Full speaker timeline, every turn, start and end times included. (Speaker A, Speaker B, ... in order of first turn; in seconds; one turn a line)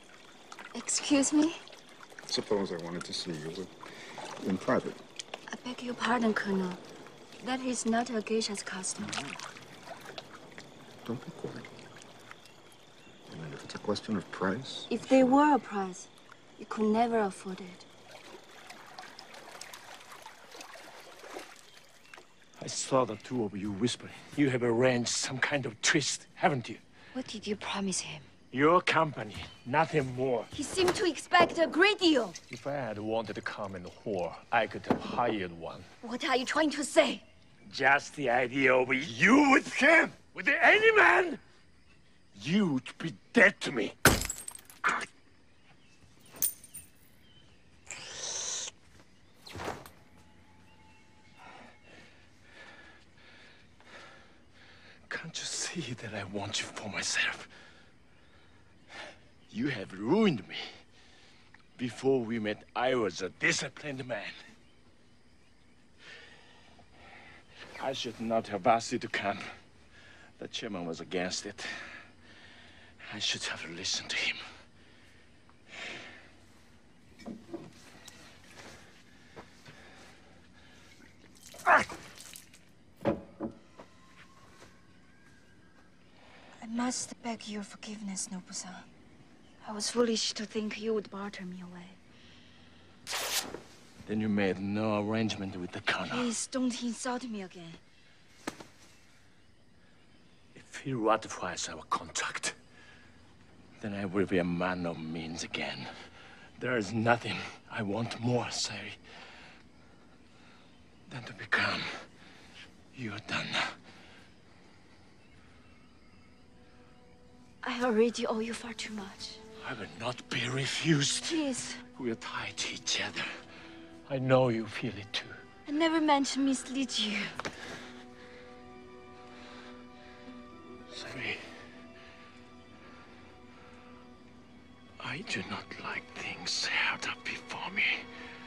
Speaker A: 0.7-1.6
Speaker B: 2.3-3.7
Speaker B: 4.4-5.0
Speaker A: 5.5-6.8
Speaker A: 7.4-9.2
Speaker B: 9.1-9.3
Speaker B: 11.0-11.7
Speaker B: 13.3-15.4
Speaker A: 14.9-17.8
Speaker C: 22.6-26.8
Speaker A: 27.1-28.3
Speaker C: 28.5-30.5
Speaker A: 30.5-32.4
Speaker C: 32.5-35.9
Speaker A: 36.0-37.2
Speaker C: 37.6-41.4
Speaker C: 42.3-44.0
Speaker C: 55.1-57.5
Speaker C: 59.5-60.7
Speaker C: 61.8-64.3
Speaker C: 67.8-69.5
Speaker C: 70.4-71.8
Speaker C: 73.0-74.4
Speaker A: 86.6-88.9
Speaker A: 89.6-92.0
Speaker C: 94.0-96.3
Speaker A: 96.0-97.8
Speaker C: 100.5-102.6
Speaker C: 103.8-105.9
Speaker C: 106.6-109.0
Speaker C: 111.1-112.0
Speaker C: 112.9-113.8
Speaker A: 117.6-119.4
Speaker C: 119.6-123.3
Speaker A: 121.2-121.8
Speaker C: 124.1-125.4
Speaker A: 125.7-127.3
Speaker C: 130.9-131.5
Speaker C: 135.0-138.1